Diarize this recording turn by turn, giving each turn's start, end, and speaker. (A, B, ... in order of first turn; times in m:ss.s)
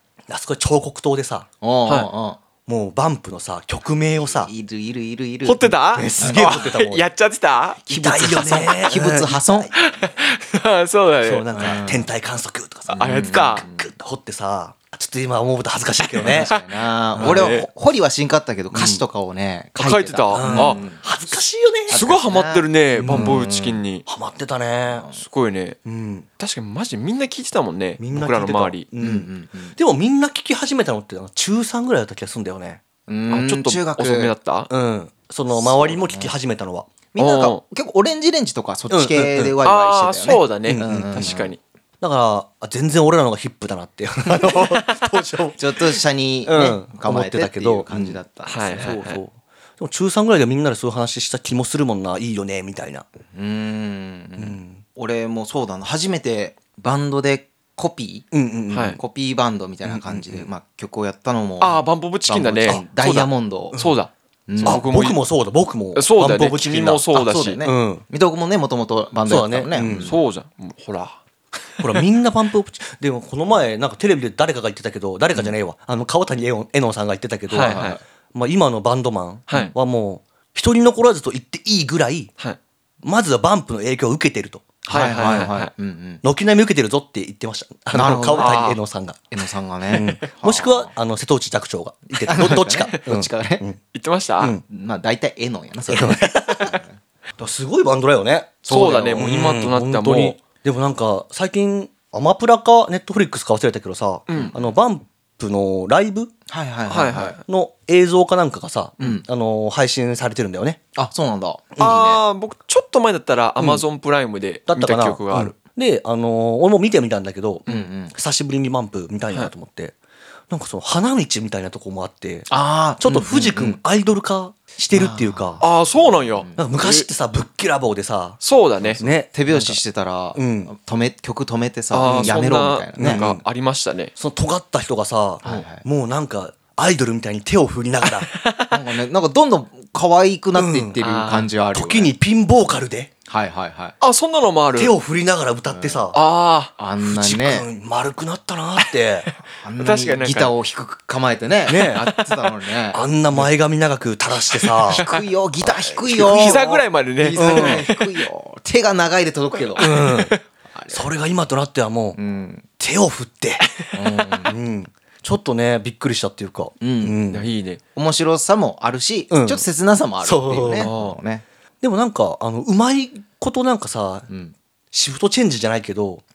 0:00.3-0:01.5 A
0:01.6-0:02.4 B
0:02.6-0:04.5 A
0:04.3-0:06.7 B
0:05.4-0:08.6 C
0:05.9-0:07.0 A
0:07.9-0:09.7 B
0:07.9-0:09.7 A
0:09.7-0:11.7 C
0:11.2-0:16.5 A
0:11.5-0:12.1 B
0:12.9-0:13.9 B
0:13.0-0:13.6 C
0:16.2-0:21.0 B
0:16.2-0:16.6 C
0:17.2-0:17.6 A
0:17.2-0:17.7 C
0:18.7-0:19.0 A
0:19.8-0:20.8 C
0:20.3-0:22.0 A
0:21.9-0:23.8 B
0:21.9-0:24.0 C
0:23.0-0:23.4 A
0:24.0-0:25.1 A
0:24.9-0:25.2 B
0:25.2-0:25.8 C
0:25.8-0:26.3 A
0:26.4-0:28.8 C
0:28.0-0:32.8 A
0:29.0-0:29.7 B
0:33.1-0:34.3 B
0:33.3-0:34.7 C
0:34.7-0:36.9 A
0:35.5-0:36.3 B
0:37.1-0:41.5 B
0:37.2-0:37.6 C
0:38.9-0:39.5 A
0:39.6-0:41.6 C
0:40.6-0:41.3 A
0:42.0-0:48.2 A
0:45.6-0:49.0 B
0:48.4-0:49.2 C
0:48.8-0:53.0 A
0:53.3-0:58.3 B
0:54.4-0:54.8 A
0:58.3-0:59.0 A
0:58.7-0:59.0 C
0:59.0-1:03.8 B
0:59.8-1:00.5 A
1:01.6-1:05.2 C
1:03.7-1:04.0 A
1:04.5-1:04.8 B
1:04.6-1:08.0 A
1:05.9-1:07.6 C
1:07.2-1:10.2 B
1:09.3-1:10.1 A
1:10.0-1:11.2 C
1:11.8-1:12.0 C
1:11.8-1:22.3 A
1:17.5-1:18.0 C
1:17.5-1:18.0 B
1:23.0-1:25.5 A
1:24.9-1:26.2 B
1:24.9-1:25.7 C
1:26.2-1:29.3 A
1:27.9-1:28.7 B
1:28.3-1:28.8 C
1:29.3-1:30.9 B
1:29.9-1:33.8 A
1:32.2-1:33.6 B
1:33.9-1:34.6 C
1:34.7-1:37.0 B
1:35.9-1:36.8 A
1:37.4-1:46.3 A
1:38.6-1:39.6 B
1:38.7-1:40.4 C
1:44.3-1:44.5 C
1:44.3-1:44.6 B
1:46.5-1:47.4 B
1:46.9-1:47.4 C
1:47.3-1:50.8 A
1:51.0-1:52.2 B
1:51.8-1:55.5 C
1:54.7-2:00.0 A
1:57.7-1:58.1 B
2:00.5-2:02.5 A
2:02.5-2:03.8 B
2:03.0-2:05.6 A
2:04.9-2:06.6 B
2:05.6-2:07.1 C
2:06.6-2:08.4 A
2:08.4-2:09.0 C
2:09.0-2:09.8 A
2:09.0-2:13.2 B
2:10.3-2:10.7 A
2:11.9-2:14.1 C
2:12.0-2:12.4 A
2:13.0-2:13.4 A
2:14.2-2:18.3 A
2:15.4-2:15.8 B
2:18.0-2:18.8 C
2:18.7-2:22.1 B
2:20.6-2:21.0 A
2:21.0-2:21.5 C
2:21.7-2:23.1 A
2:23.3-2:24.0 B
2:24.0-2:24.9 C
2:24.8-2:26.2 A
2:25.7-2:26.1 B
2:26.1-2:26.7 C
2:26.8-2:27.7 B
2:27.0-2:29.3 A
2:29.6-2:33.5 B
2:29.8-2:30.5 C
2:31.7-2:32.0 A
2:32.9-2:35.0 A
2:34.8-2:35.2 C
2:34.9-2:40.0 B
2:35.8-2:36.5 A
2:36.1-2:38.0 C
2:37.4-2:37.9 A
2:39.8-2:40.4 C
2:39.8-2:40.3 A
2:40.7-2:41.1 B
2:40.9-2:42.2 A
2:42.1-2:42.7 B
2:42.8-2:43.6 A
2:43.9-2:44.5 B
2:44.4-2:47.4 A
2:46.8-2:47.2 B
2:47.3-2:47.8 C
2:47.9-2:51.4 B
2:49.3-2:49.6 A
2:50.2-2:50.9 A
2:50.8-2:51.1 C
2:51.8-2:54.3 A
2:54.3-2:54.5 B
2:54.9-2:56.2 A